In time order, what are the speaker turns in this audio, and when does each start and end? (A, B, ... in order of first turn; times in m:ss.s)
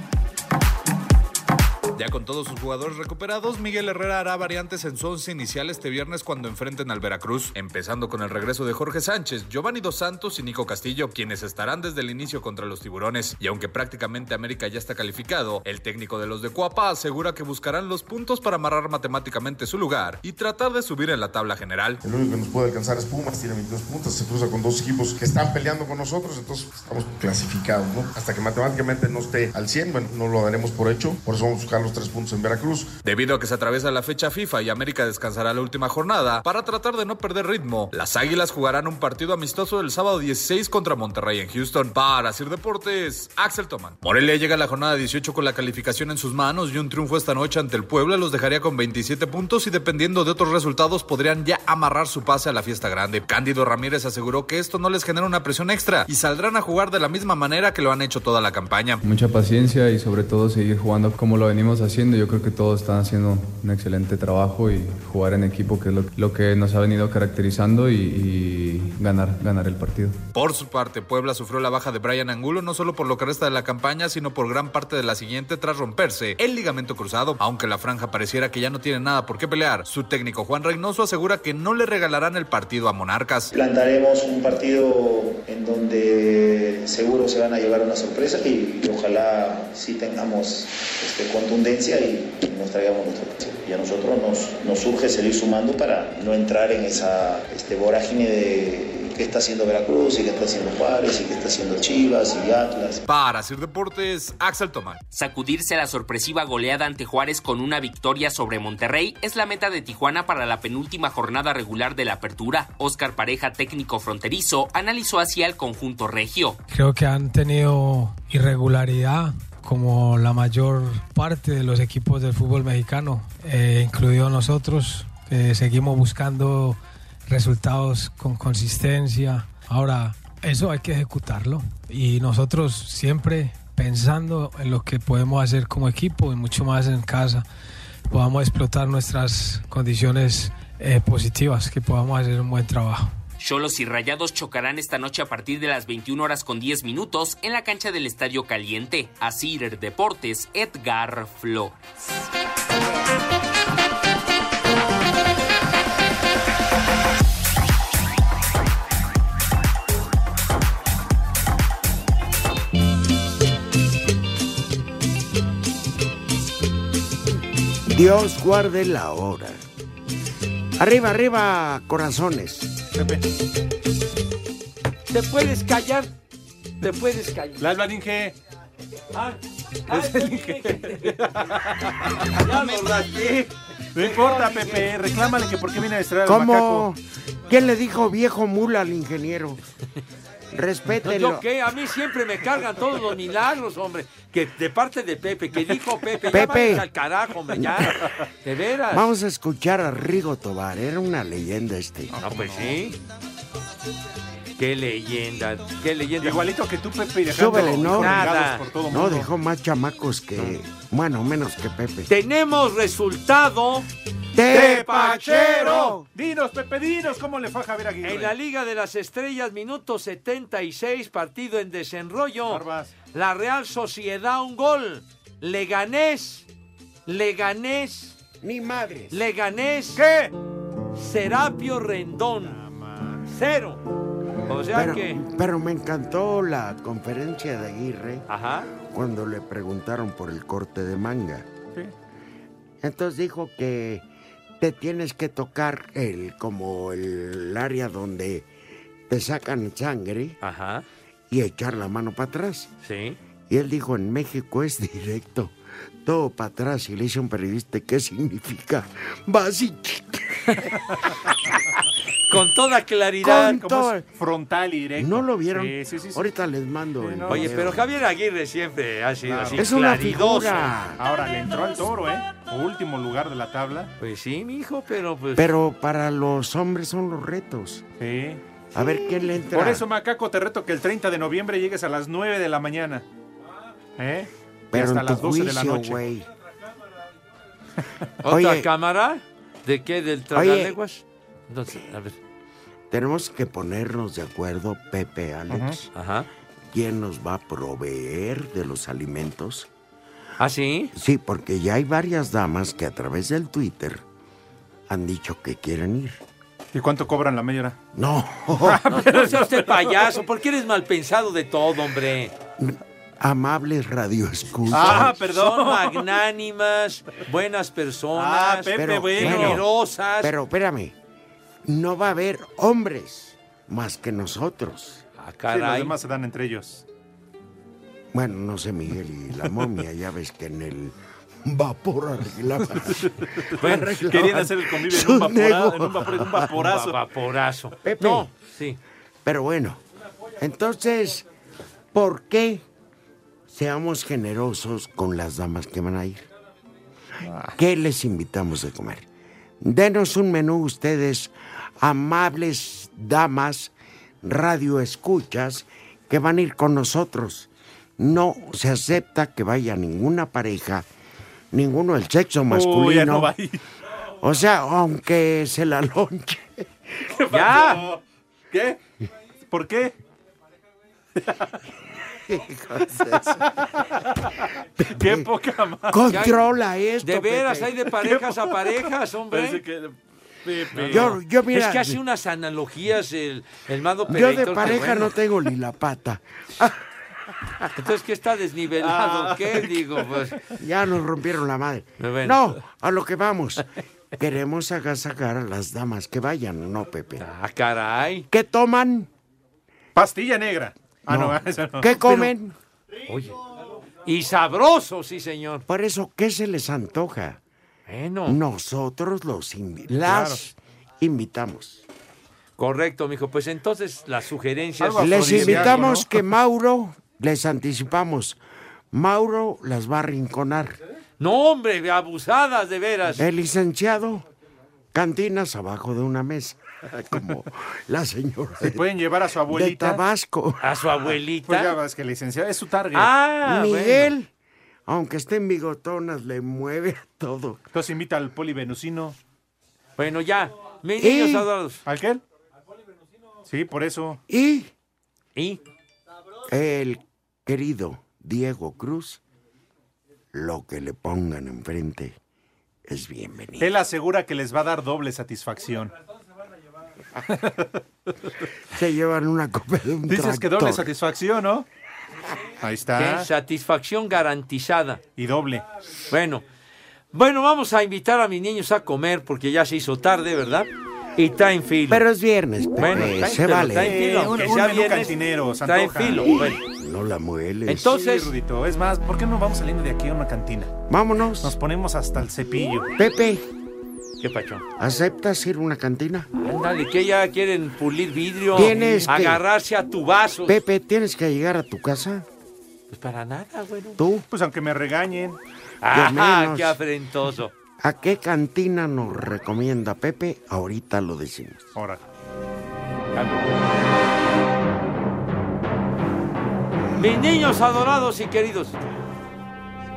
0:02.0-0:22.0 A
0:22.0-0:32.9 B
0:33.0-0:59.0 A
0:59.0-1:10.2 C
1:10.4-1:23.5 A
1:23.5-1:43.0 D
1:43.1-1:45.0 A
1:45.1-1:56.6 E
1:56.7-2:17.4 F
2:18.1-2:23.1 F
2:23.4-2:31.8 E
2:47.9-2:49.6 G
2:50.8-2:52.7 G
2:52.9-2:53.2 H
2:55.1-2:56.1 I
2:56.8-2:57.6 I
2:57.6-2:58.4 H
2:59.2-3:01.2 I
2:59.9-3:02.4 H
3:02.3-3:04.9 I
3:04.0-3:06.9 H
3:06.3-3:09.6 G
3:10.5-3:11.4 G
3:11.0-3:19.1 I
3:16.3-3:16.9 G
3:17.5-3:17.9 G
3:18.9-3:22.8 G
3:22.2-3:23.0 I
3:24.6-3:26.5 I
3:26.2-3:29.3 H
3:27.3-3:28.3 G
3:27.9-3:28.6 I
3:28.9-3:32.1 G
3:32.1-3:33.9 I
3:34.4-3:36.1 G
3:34.5-3:36.0 I
3:34.5-3:38.4 H
3:38.0-3:46.5 I
3:42.5-3:42.9 H
3:47.1-3:48.2 I
3:48.4-3:49.2 G
3:49.1-3:50.0 I
3:49.9-3:50.3 H
3:51.0-3:52.6 I
3:52.4-3:53.3 H
3:53.3-3:53.8 I
3:54.5-3:55.2 I
3:54.7-4:01.5 G
3:58.3-3:58.7 I
4:02.8-4:04.0 G
4:04.6-4:08.5 G
4:09.1-4:10.4 G
4:10.4-4:10.8 I
4:11.3-4:12.7 G
4:12.8-4:13.2 I
4:13.5-4:20.7 G
4:22.3-4:23.6 I
4:23.2-4:24.0 G
4:23.3-4:26.3 H
4:25.0-4:27.9 G
4:27.0-4:27.6 H
4:27.3-4:30.7 I
4:29.2-4:29.7 H
4:29.6-4:31.0 G
4:31.0-4:33.9 H
4:34.0-4:35.5 I
4:35.4-4:37.8 G
4:38.0-4:38.4 H
4:38.7-4:39.8 G
4:39.5-4:43.0 H
4:44.0-4:46.0 H
4:44.7-4:46.3 G
4:48.2-4:52.2 I
4:48.3-4:48.7 G
4:50.3-4:50.8 G
4:52.9-4:55.8 G
4:55.5-4:55.8 H
4:55.9-4:56.3 I
4:56.7-4:59.7 G
5:00.4-5:00.9 I
5:00.9-5:04.0 G
5:04.9-5:06.2 G
5:06.7-5:07.8 H
5:07.9-5:08.8 G
5:08.6-5:10.2 H
5:08.9-5:12.3 I
5:12.6-5:15.2 G
5:14.7-5:16.1 H
5:14.7-5:20.3 I
5:18.1-5:19.6 H
5:18.8-5:19.7 G
5:20.2-5:21.0 G
5:21.6-5:25.0 G
5:25.2-5:25.9 I
5:25.5-5:26.8 H
5:28.1-5:36.5 G
5:32.8-5:37.0 H
5:36.6-5:38.8 I
5:37.8-5:38.3 G
5:39.2-5:39.8 G
5:40.4-5:41.2 G
5:41.9-5:42.6 G
5:43.5-5:46.2 G
5:47.5-5:49.0 G
5:49.6-6:00.9 G
6:01.5-6:03.4 G
6:02.5-6:03.6 H
6:04.2-6:06.7 G
6:07.2-6:08.0 H
6:07.3-6:07.9 I
6:08.5-6:08.8 H
6:09.5-6:09.9 H
6:11.2-6:11.6 H
6:12.3-6:13.4 G
6:13.0-6:16.0 H
6:14.8-6:15.3 G
6:15.9-6:17.7 G
6:16.1-6:16.4 I
6:17.0-6:19.6 I
6:18.0-6:21.2 H
6:20.7-6:25.1 I
6:20.8-6:22.0 G
6:24.1-6:26.8 G
6:27.8-6:30.4 I
6:28.8-6:30.2 H
6:30.6-6:33.7 G
6:32.0-6:32.6 I
6:34.2-6:37.2 G
6:37.2-6:38.3 I
6:38.3-6:39.1 G
6:40.0-6:42.1 H
6:41.1-6:42.6 G
6:43.1-6:43.4 I
6:44.0-6:45.6 I
6:45.7-6:47.4 G
6:47.9-6:48.4 I
6:48.3-6:51.8 G
6:50.0-6:50.4 H
6:52.6-6:55.9 I
6:54.8-6:56.1 H
6:55.0-6:58.4 G
6:58.9-7:00.8 G
7:01.2-7:03.2 I
7:03.2-7:04.2 G
7:04.9-7:08.9 G
7:08.6-7:10.0 H
7:09.5-7:10.7 G
7:10.6-7:11.8 I
7:11.4-7:13.1 H
7:12.9-7:14.1 I
7:13.4-7:14.3 G
7:14.9-7:17.6 G
7:17.7-7:19.2 H
7:20.0-7:21.8 I
7:21.0-7:21.5 G
7:21.8-7:22.2 H
7:23.5-7:24.2 H
7:24.3-7:24.7 G
7:26.5-7:29.2 G
7:30.3-7:32.2 G
7:32.9-7:33.7 G
7:33.6-7:35.9 H
7:37.3-7:37.8 H
7:38.7-7:40.9 G
7:40.1-7:41.7 H
7:42.6-7:43.3 H
7:43.0-7:45.0 I
7:45.2-7:45.6 H
7:46.1-7:46.4 I
7:47.1-7:52.0 I
7:51.9-7:54.0 G
7:52.8-7:56.6 I
7:53.7-7:56.5 H
7:56.4-7:58.0 G
7:57.7-7:58.3 I
7:57.8-8:00.7 H
8:00.9-8:01.6 G
8:01.4-8:02.9 H
8:03.0-8:03.4 G
8:04.2-8:04.6 I
8:04.8-8:06.3 G
8:06.4-8:10.6 I
8:08.5-8:09.4 G
8:08.6-8:09.1 H
8:10.5-8:12.3 G
8:12.9-8:14.0 I
8:14.0-8:14.3 G
8:14.3-8:15.4 H
8:15.8-8:17.5 I
8:15.9-8:16.8 G
8:17.8-8:21.7 G
8:21.8-8:22.0 H
8:27.0-8:28.8 I